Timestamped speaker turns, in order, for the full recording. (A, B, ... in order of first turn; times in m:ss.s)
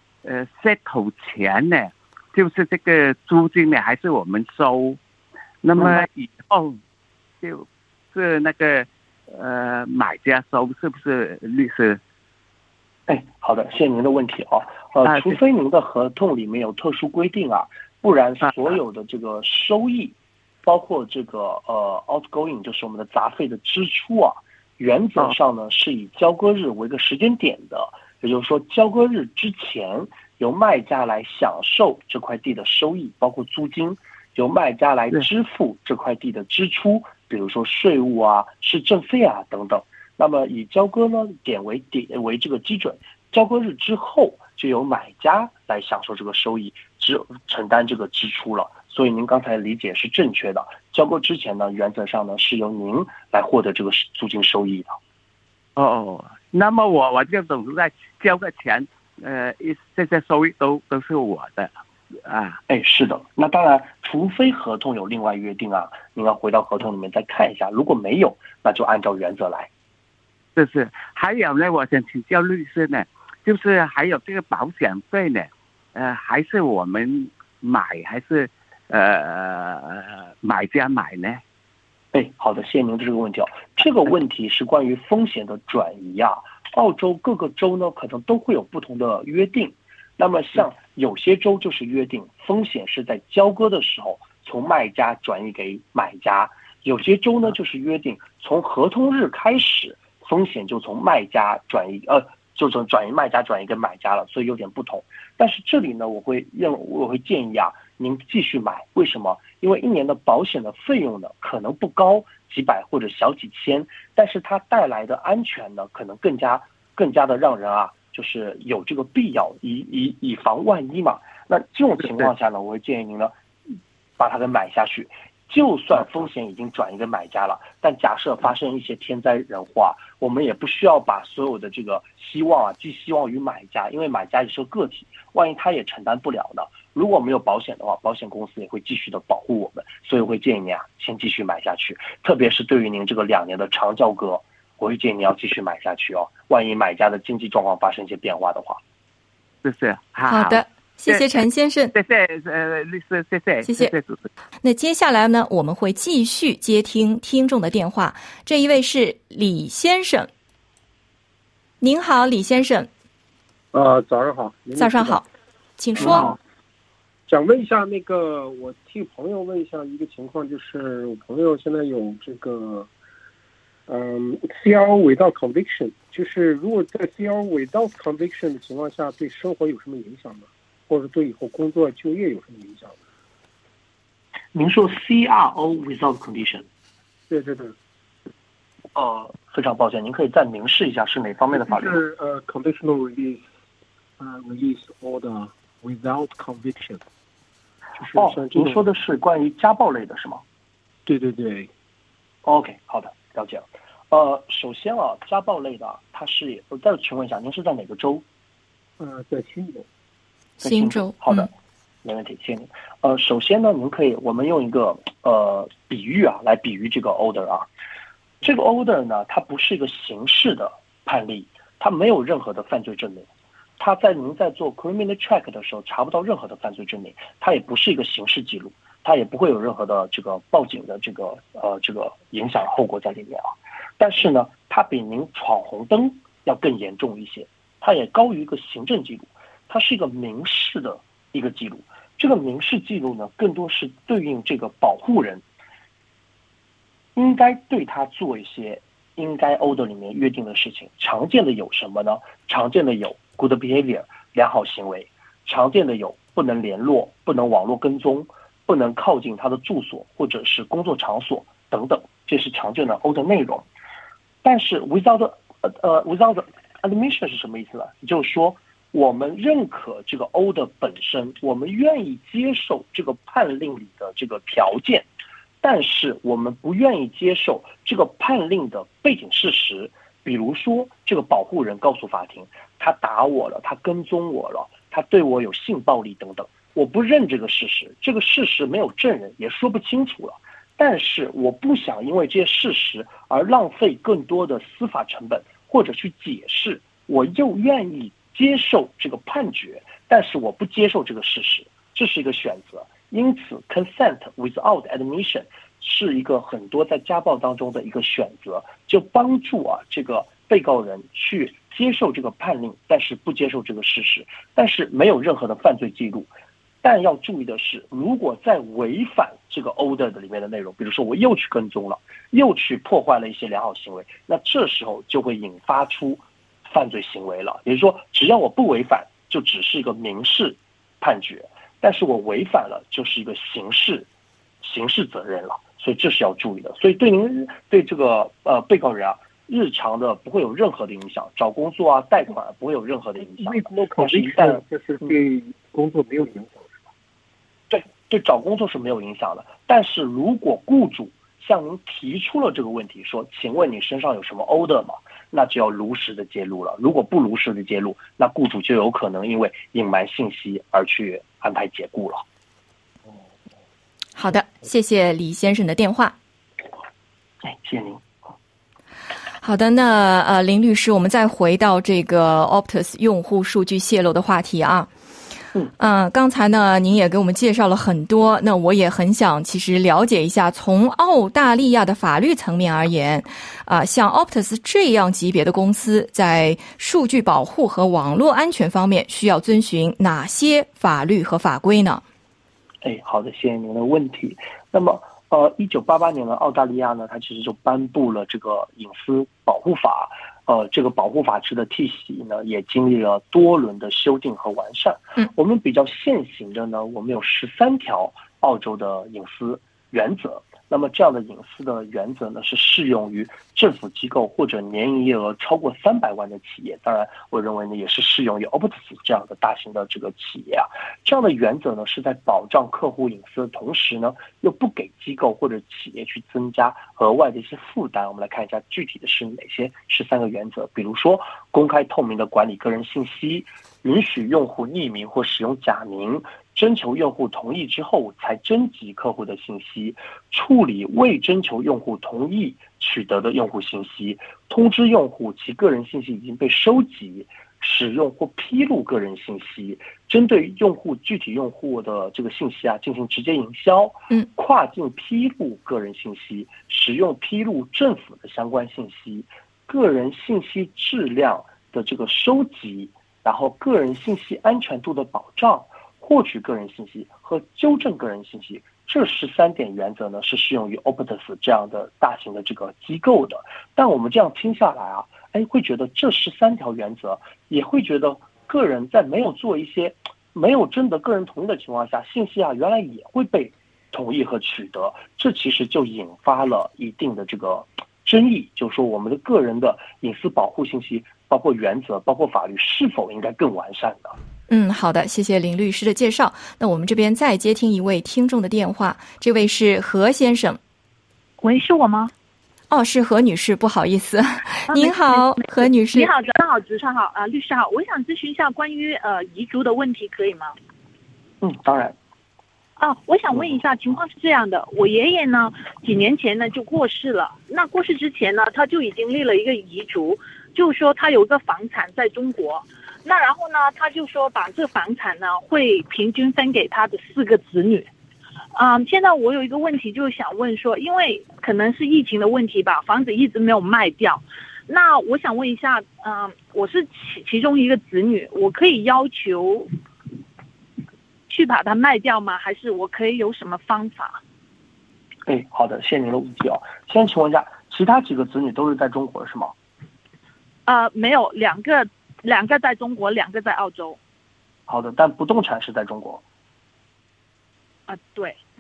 0:00.2-0:05.0 A
0:05.6-0:06.8 A
0:05.8-0:06.1 B
0:07.4-0:12.0 A
0:13.1-0:55.0 B
0:15.0-0:15.4 A
0:55.8-1:02.6 A
1:02.7-1:09.7 B
1:10.6-1:21.4 A
1:22.1-2:03.3 B
2:04.2-2:28.8 B
2:29.6-2:31.4 A
2:30.3-2:31.9 C
2:31.9-2:34.2 A
2:33.6-2:33.9 C
2:34.6-2:40.3 C
2:41.8-2:42.9 C
2:43.7-2:45.2 D
2:44.8-2:45.2 C
2:45.8-2:46.3 C
2:46.0-2:46.4 D
2:47.3-2:52.9 D
2:53.9-3:03.0 D
3:04.5-3:06.7 B
3:07.3-3:07.8 D
3:08.9-3:12.0 B
3:11.5-3:13.4 D
3:14.2-3:17.0 D
3:18.0-3:18.9 D
3:18.1-3:20.4 B
3:21.0-3:21.7 D
3:22.4-3:28.2 B
3:29.0-3:29.8 D
3:30.6-3:31.5 B
3:30.6-3:31.5 C
3:32.0-3:37.7 B
3:38.4-4:05.4 B
4:07.1-4:23.7 B
4:24.4-4:35.1 B
4:35.6-5:34.1 B
5:34.6-5:45.1 B
5:43.2-5:46.9 D
5:47.7-6:02.2 B
6:04.2-6:06.1 C
6:07.4-6:08.2 B
6:09.4-6:14.9 C
6:15.8-6:32.0 C
6:32.8-8:14.1 B
8:14.5-8:20.6 C
8:21.4-8:22.1 E
8:22.7-8:26.1 C
8:24.7-8:30.5 E
8:31.4-8:32.0 B
8:32.8-8:47.9 E
8:48.5-8:59.7 E
9:01.3-9:04.2 E
9:05.2-9:09.5 B
9:10.6-9:14.0 E
9:14.7-9:16.2 B
9:17.9-9:18.4 E